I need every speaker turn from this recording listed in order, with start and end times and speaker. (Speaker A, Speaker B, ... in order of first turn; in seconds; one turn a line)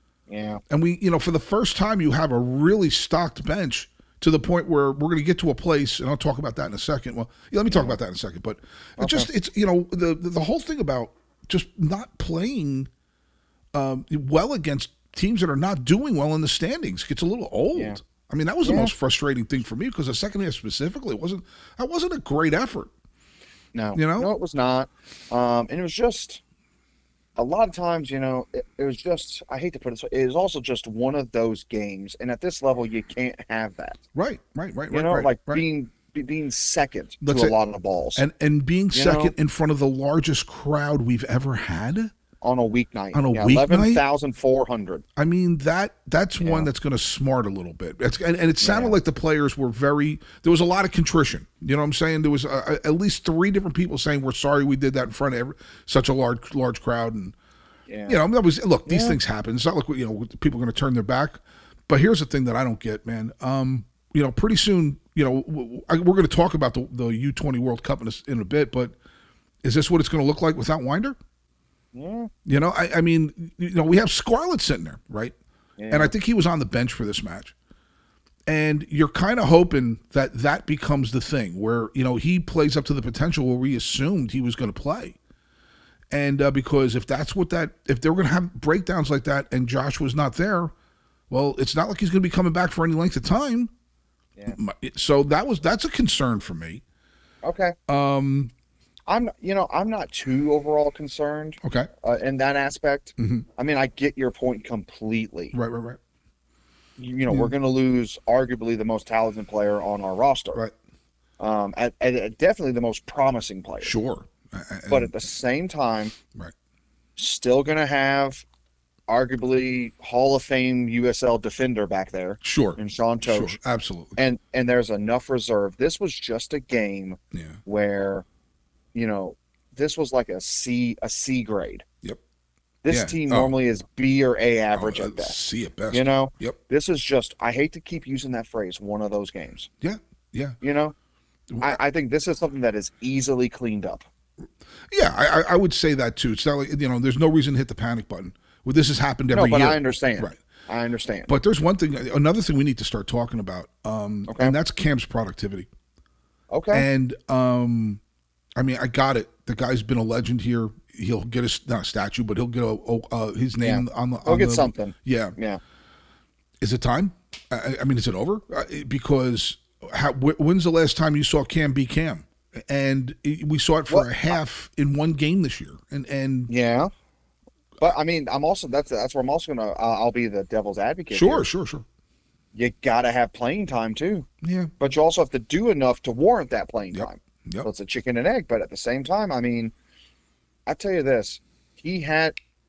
Speaker A: 0.3-0.6
Speaker B: 0.7-12.9
Speaker A: 7.7-8.0
Speaker A: 9.0-9.3
Speaker B: 13.7-22.9
Speaker A: 17.7-18.0
Speaker A: 18.6-18.9
Speaker A: 23.7-26.4
Speaker B: 23.9-24.3
Speaker A: 27.4-34.0
Speaker B: 34.1-35.6
Speaker A: 34.9-38.2
Speaker B: 37.2-37.6
Speaker B: 38.2-42.1
Speaker A: 38.9-39.3
Speaker A: 42.4-45.0
Speaker B: 43.1-44.0
Speaker B: 45.2-57.4
Speaker A: 46.4-46.7
Speaker A: 48.6-49.0
Speaker A: 57.9-58.2
Speaker B: 58.1-69.0
Speaker A: 58.9-59.2
Speaker B: 69.6-71.2
Speaker A: 71.9-72.3
Speaker B: 72.5-75.3
Speaker A: 75.8-76.1
Speaker B: 75.9-77.5
Speaker B: 78.5-85.2
Speaker B: 86.1-90.7
Speaker B: 91.3-93.7
Speaker B: 94.5-96.8
Speaker A: 97.4-97.8
Speaker B: 97.9-98.5
Speaker A: 99.1-105.5
Speaker B: 101.6-101.9
Speaker B: 103.2-103.5
Speaker B: 105.5-106.0
Speaker A: 107.0-110.6
Speaker A: 111.4-113.9
Speaker B: 113.8-115.1
Speaker A: 114.9-116.2
Speaker A: 117.2-118.4
Speaker A: 119.1-123.6
Speaker B: 122.4-124.2
Speaker A: 124.2-128.2
Speaker B: 127.3-127.6
Speaker A: 128.9-131.8
Speaker A: 132.8-135.4
Speaker B: 132.9-133.6
Speaker B: 134.8-136.6
Speaker A: 135.9-139.7
Speaker B: 139.8-140.6
Speaker A: 140.6-140.9
Speaker B: 141.5-141.8
Speaker A: 141.6-144.1
Speaker B: 144.9-150.4
Speaker A: 149.3-151.3
Speaker B: 151.3-155.7
Speaker A: 154.3-154.6
Speaker A: 156.5-156.9
Speaker B: 156.7-158.0
Speaker B: 158.6-165.3
Speaker A: 163.6-165.6
Speaker B: 166.6-176.5
Speaker A: 173.9-174.4
Speaker A: 176.5-176.9
Speaker A: 177.8-181.5
Speaker B: 181.1-181.8
Speaker A: 182.5-184.3
Speaker B: 184.4-184.7
Speaker A: 184.8-189.7
Speaker B: 186.9-187.7
Speaker A: 190.7-192.4